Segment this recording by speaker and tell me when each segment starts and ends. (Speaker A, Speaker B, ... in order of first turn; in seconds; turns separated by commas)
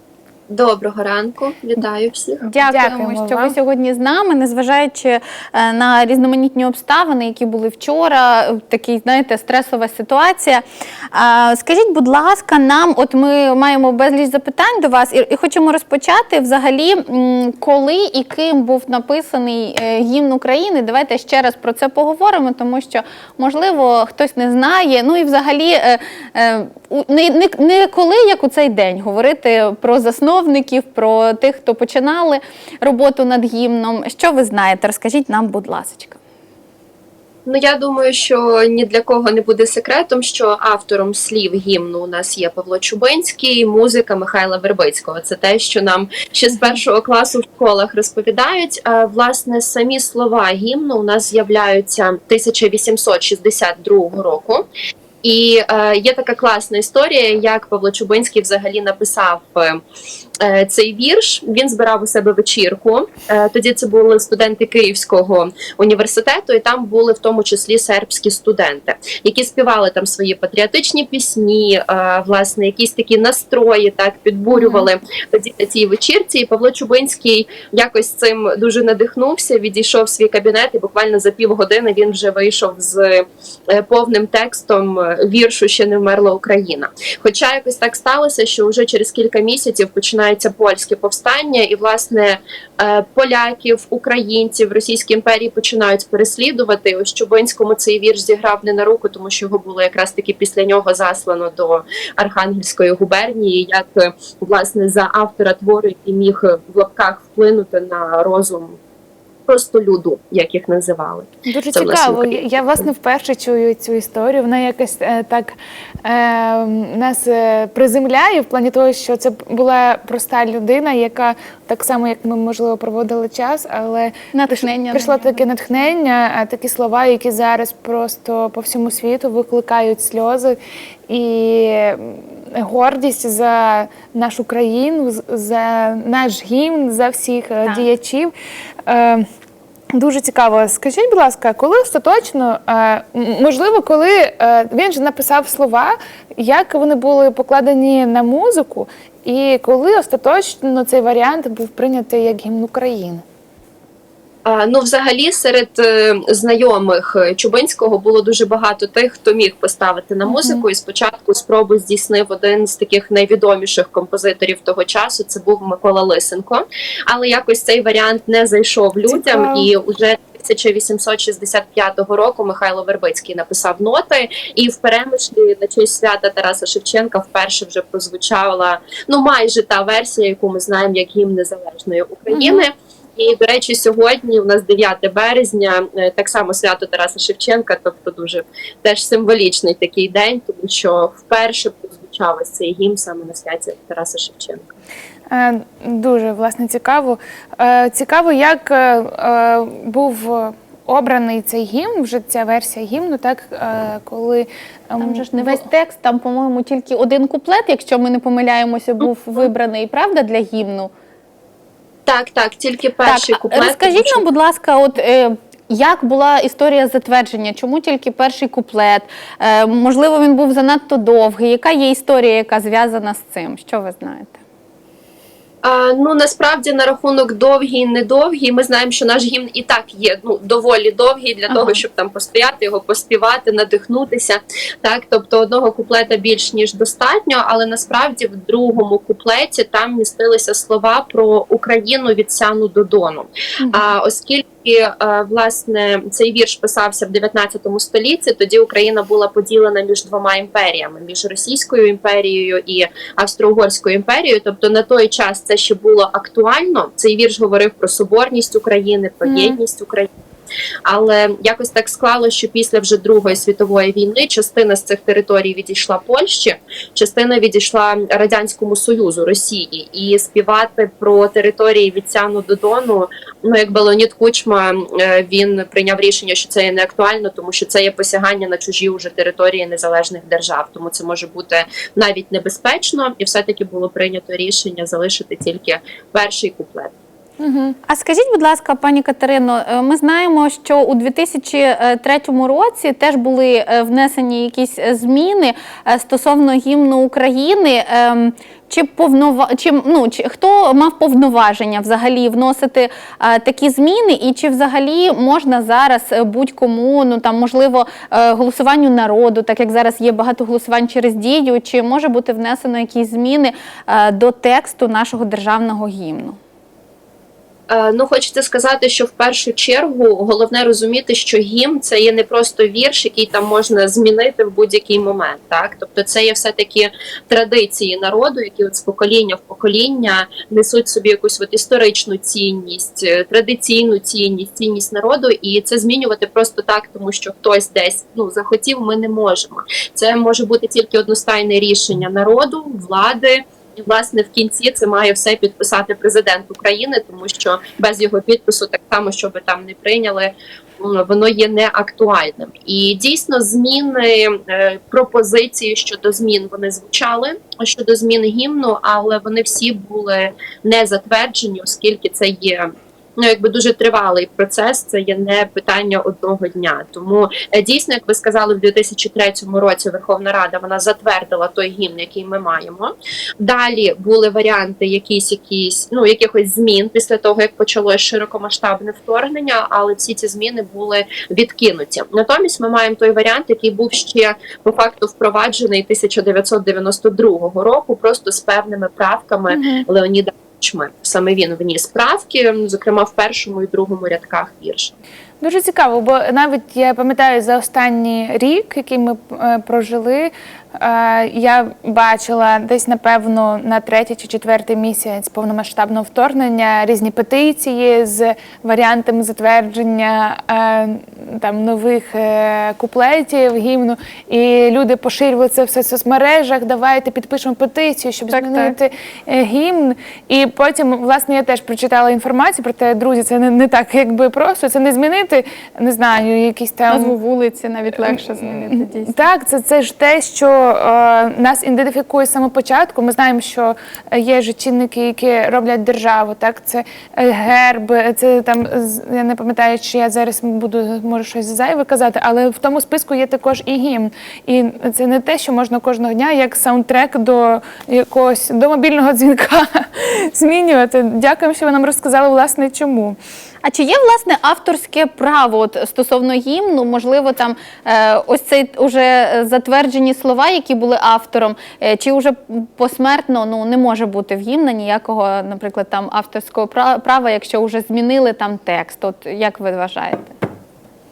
Speaker A: 0.5-2.5, Speaker B: 2.5-3.5, Speaker C: 2.6-36.2, Speaker A: 37.5-54.6, Speaker A: 55.2-59.8, Speaker A: 60.4-108.8, Speaker B: 74.5-74.8, Speaker A: 109.5-112.4, Speaker B: 111.5-130.6, Speaker C: 124.3-125.4, Speaker B: 131.1-138.3, Speaker B: 138.8-139.2, Speaker B: 139.9-153.2, Speaker A: 154.4-194.7, Speaker B: 160.2-160.6, Speaker B: 169.1-169.7, Speaker B: 182.3-182.6, Speaker B: 195.3-205.7, Speaker C: 205.0-210.9, Speaker A: 212.1-214.2, Speaker C: 213.1-224.4, Speaker A: 225.6-260.1, Speaker C: 231.5-231.8, Speaker B: 259.2-259.6, Speaker A: 260.9-286.9, Speaker B: 287.4-287.8, Speaker C: 287.9-316.4, Speaker A: 317.7-394.9, Speaker B: 389.5-389.8, Speaker B: 395.4-427.1, Speaker C: 418.3-418.8, Speaker C: 426.9-429.1, Speaker B: 428.0-453.2, Speaker C: 453.6-470.4